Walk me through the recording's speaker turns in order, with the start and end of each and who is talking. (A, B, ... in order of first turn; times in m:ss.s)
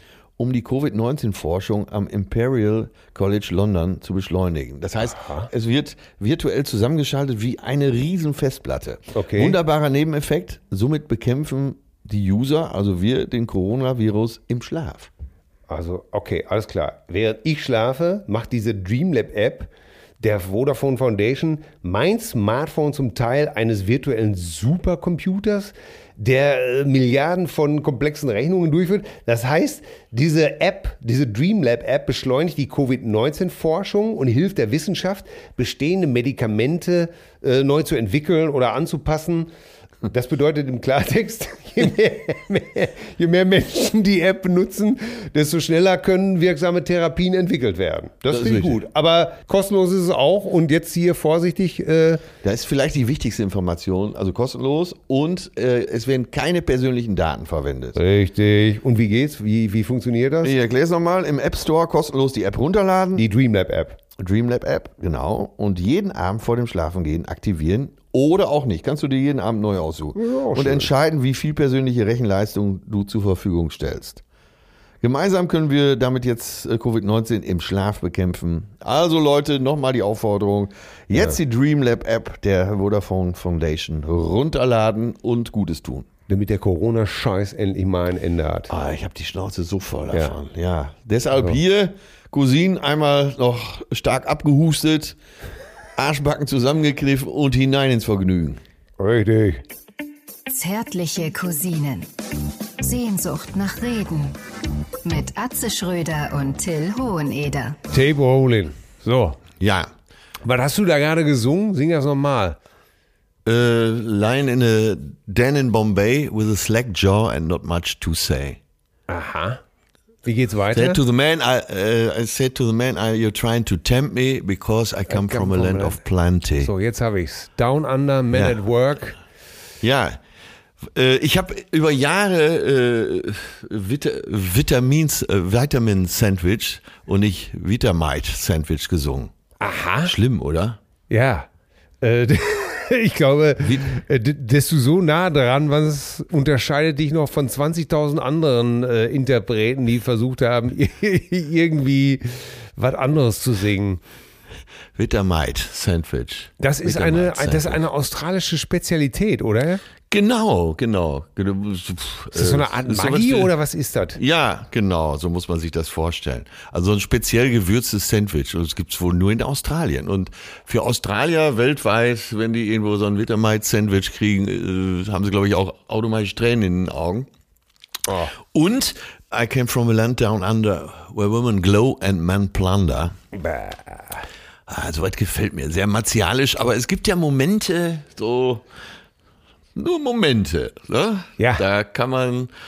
0:00.4-0:15.1 A
0:05.0-0:05.5 B
0:09.2-0:09.6 B
0:15.7-0:39.5 B
0:40.1-0:52.2 B
0:48.3-0:48.8 A
0:52.4-0:58.0 A
0:58.0-1:00.5 B
1:00.4-1:03.2 A
1:03.2-1:04.0 B
1:04.2-1:14.2 A
1:10.2-1:10.9 B
1:15.0-1:26.1 A
1:21.1-1:21.4 B
1:26.3-1:28.7 B
1:28.7-1:35.2 A
1:36.0-1:38.6 A
1:39.0-1:39.6 B
1:40.5-1:42.1 C
1:42.8-1:44.4 C
1:45.0-1:47.8 C
1:47.9-1:49.4 B
1:49.6-1:49.9 A
1:50.4-1:52.6 B
1:53.5-1:58.6 A
1:59.1-1:59.6 B
2:00.2-2:01.0 B
2:00.7-2:06.7 A
2:05.1-2:06.0 B
2:06.6-2:09.2 B
2:08.3-2:08.6 A
2:09.8-2:10.2 A
2:10.9-2:19.3 A
2:19.6-2:20.1 B
2:20.0-2:20.8 A
2:21.1-2:21.5 B
2:22.0-2:34.0 B
2:23.6-2:23.9 A
2:35.0-2:37.8 A
2:36.6-2:39.8 B
2:40.1-2:43.5 A
2:42.3-2:44.2 B
2:44.2-2:57.3 A
2:58.1-2:58.3 B
2:58.4-3:03.2 A
3:03.3-3:04.3 B
3:04.7-3:08.6 A
3:09.8-3:12.5 A